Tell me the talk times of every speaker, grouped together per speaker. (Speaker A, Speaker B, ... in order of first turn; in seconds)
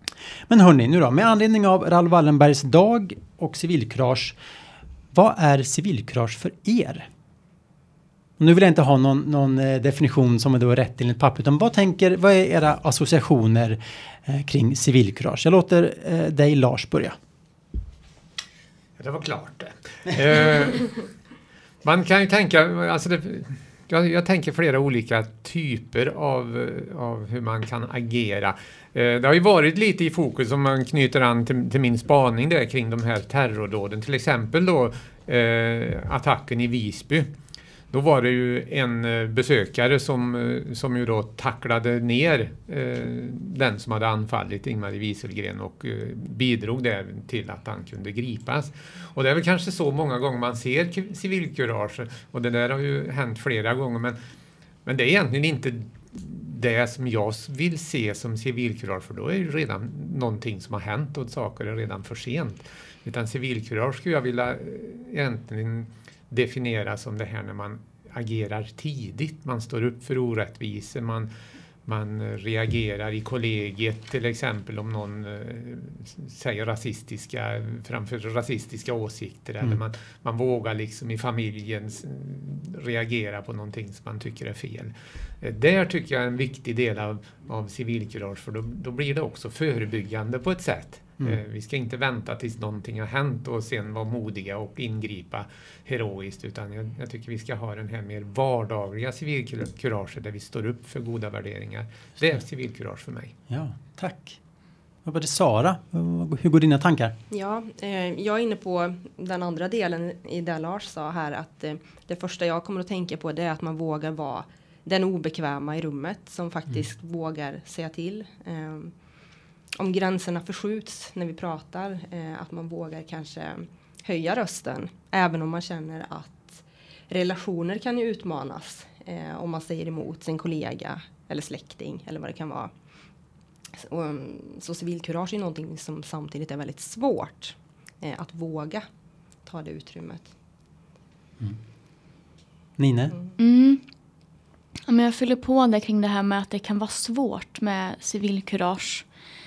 Speaker A: 0.5-4.3, 5.1-7.1, 8.4-17.2, 103.5-104.4, 105.0-107.1, 142.8-143.2
Speaker B: 19.0-21.1, 21.8-37.3, 37.9-54.2, 54.8-71.3, 71.8-103.3
Speaker C: 107.3-118.9, 119.8-132.7, 133.7-138.8, 139.4-140.3
Speaker D: 143.4-143.8, 144.8-149.1